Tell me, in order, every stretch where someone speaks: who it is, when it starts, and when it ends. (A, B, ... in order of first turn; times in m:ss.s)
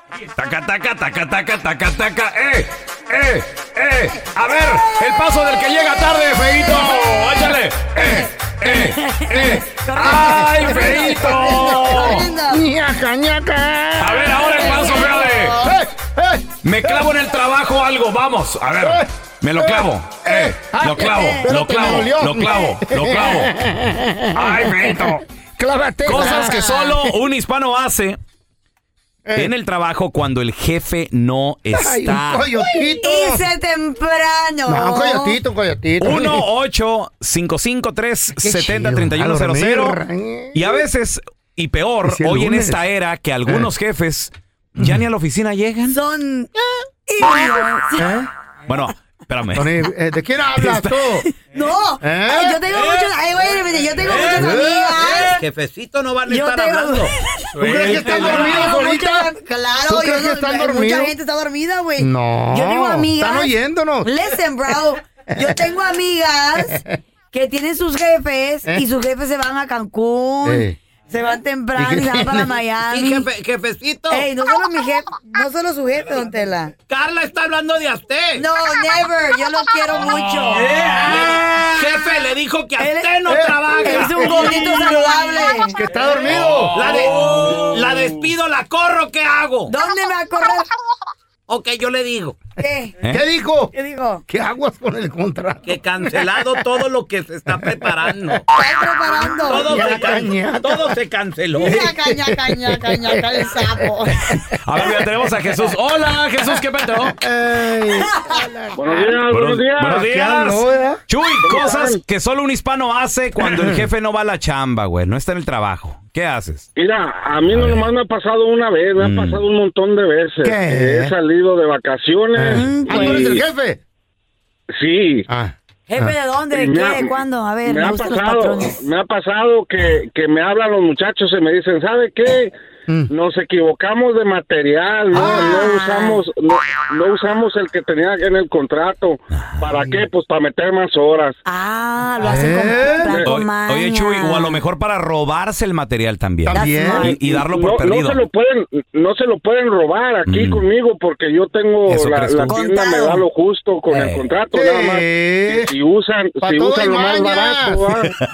0:00.4-0:12.3 A
0:08.0-0:12.6 B
0:10.0-0:17.1 C
0:14.0-0:15.6 A
0:14.6-0:15.8 B
0:16.6-0:23.5 A
0:18.8-0:19.1 C
0:19.6-0:27.1 C
0:21.0-0:21.8 B
0:24.4-0:25.2 A
0:26.0-0:28.2 A
0:26.2-0:26.6 B
0:29.3-0:29.5 C
0:29.4-0:32.5 A
0:31.7-0:33.5 C
0:32.6-0:35.4 B
0:34.7-0:36.5 C
0:36.0-0:40.0 A
0:38.4-0:40.8 C
0:40.5-0:46.0 A
0:42.0-0:42.8 C
0:44.8-0:45.0 C
0:45.9-0:46.5 B
0:47.1-0:48.1 B
0:48.0-0:48.3 C
0:48.7-0:49.8 A
0:49.5-0:51.2 C
0:50.6-0:51.2 A
0:51.5-0:55.4 B
0:52.0-0:52.6 C
0:54.0-0:58.7 D
0:54.4-0:55.0 C
0:56.3-1:06.8 B
0:57.6-0:59.3 C
0:59.9-1:01.1 C
1:02.0-1:04.1 C
1:07.3-1:13.3 B
1:10.4-1:10.8 C
1:11.8-1:12.6 C
1:12.9-1:14.3 D
1:14.1-1:16.7 B
1:16.9-1:18.5 D
1:18.4-1:21.9 B
1:20.5-1:25.2 D
1:22.8-1:23.2 B
1:23.3-1:24.7 C
1:23.8-1:25.8 B
1:25.7-1:26.8 C
1:26.7-1:29.7 D
1:29.7-1:30.7 B
1:31.5-1:32.4 D
1:32.6-1:32.9 B
1:33.1-1:33.7 C
1:33.7-1:34.2 B
1:34.3-1:36.6 C
1:35.6-1:38.4 D
1:37.5-1:38.3 C
1:38.5-1:40.1 B
1:39.3-1:41.8 D
1:39.6-1:41.0 C
1:41.6-1:44.3 B
1:41.6-1:45.7 C
1:44.6-1:47.2 A
1:46.4-1:49.2 C
1:48.0-1:48.4 B
1:48.8-1:50.0 E
1:49.3-1:56.7 A
1:49.8-1:51.0 C
1:51.4-1:52.0 E
1:53.4-1:53.9 C
1:56.8-2:03.4 E
1:57.5-1:57.9 A
1:59.0-1:59.4 A
2:00.4-2:01.1 C
2:02.4-2:03.8 C
2:02.5-2:03.3 B
2:04.7-2:05.2 E
2:05.3-2:06.1 C
2:05.9-2:08.8 B
2:06.5-2:07.1 E
2:07.6-2:12.5 E
2:13.1-2:21.4 E
2:15.1-2:15.6 C
2:15.2-2:16.2 B
2:21.4-2:24.6 B
2:22.2-2:23.2 C
2:23.2-2:28.2 A
2:26.5-2:27.2 B
2:26.5-2:27.1 C
2:27.3-2:38.1 E
2:30.3-2:30.6 A
2:31.9-2:32.6 A
2:32.5-2:33.2 B
2:33.9-2:34.2 A
2:34.5-2:35.7 C
2:36.4-2:37.9 C